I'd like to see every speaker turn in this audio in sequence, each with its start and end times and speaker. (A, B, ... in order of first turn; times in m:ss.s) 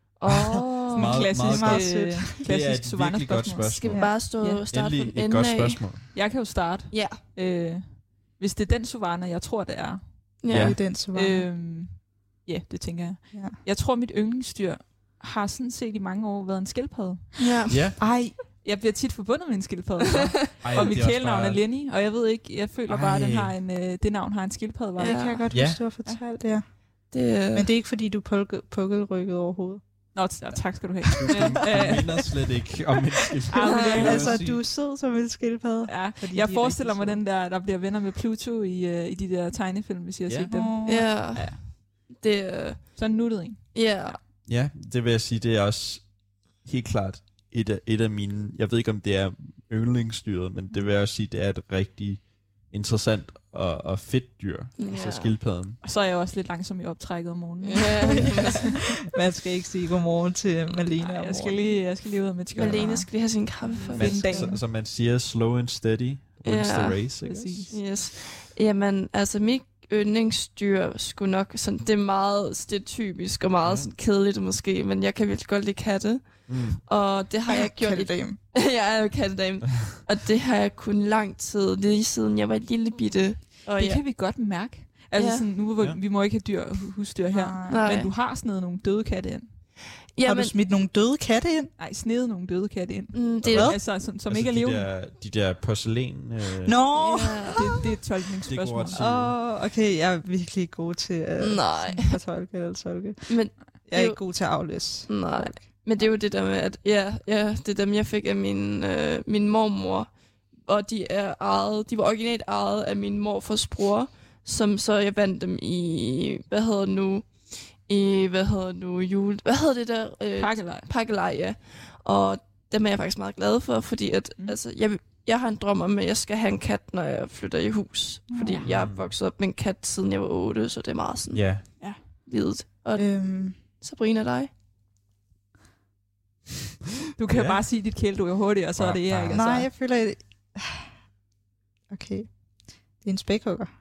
0:00.2-0:01.3 A
0:00.3-0:06.0 B
0:00.9-0:04.6 C
0:01.0-0:02.4 D
0:03.8-0:06.2 A
0:06.1-0:10.4 C
0:06.9-0:07.2 A
0:10.4-0:10.8 A
0:10.5-0:10.8 B
0:10.5-0:11.5 D
0:11.1-0:17.4 C
0:17.4-0:17.8 A
0:17.7-0:18.0 B
0:18.0-0:18.4 D
0:18.6-0:25.4 C
0:20.6-0:21.6 B
0:22.9-0:23.6 B
0:25.0-0:25.4 A
0:25.0-0:32.2 D
0:25.5-0:25.8 B
0:27.1-0:27.6 A
0:30.1-0:32.3 C
0:31.1-0:34.6 B
0:33.5-0:37.2 D
0:33.5-0:34.4 C
0:33.9-0:34.1 A
0:35.9-0:41.6 C
0:40.5-0:41.2 D
0:40.8-0:44.2 A
0:43.0-0:43.7 C
0:44.4-0:55.8 B
0:54.8-0:55.3 A
0:55.8-0:58.8 C
0:57.6-0:58.6 A
0:58.1-0:58.5 D
0:59.1-1:01.8 D
1:01.0-1:04.6 C
1:02.6-1:04.3 A
1:02.6-1:03.0 D
1:03.9-1:07.7 B
1:04.1-1:04.6 D
1:06.4-1:24.1 A
1:07.2-1:07.8 C
1:13.6-1:13.9 B
1:16.5-1:16.8 B
1:17.5-1:18.4 D
1:23.7-1:29.7 C
1:25.1-1:25.5 A
1:27.3-1:27.9 D
1:27.7-1:28.1 A
1:30.1-1:30.5 A
1:30.2-1:31.7 D
1:31.8-1:34.9 C
1:33.1-1:33.6 A
1:33.4-1:36.8 B
1:36.6-1:37.7 D
1:37.0-1:37.6 A
1:37.6-1:39.0 C
1:38.5-1:39.4 B
1:39.0-1:45.7 D
1:41.4-1:42.2 A
1:43.3-2:14.5 A
2:00.4-2:00.9 C
2:08.3-2:08.6 D
2:08.4-2:08.7 C
2:08.6-2:09.1 B
2:11.3-2:11.7 B
2:13.0-2:13.6 D
2:17.2-2:19.7 C
2:17.3-2:17.9 B
2:18.8-2:19.4 B
2:19.3-2:21.1 D
2:21.9-2:23.7 D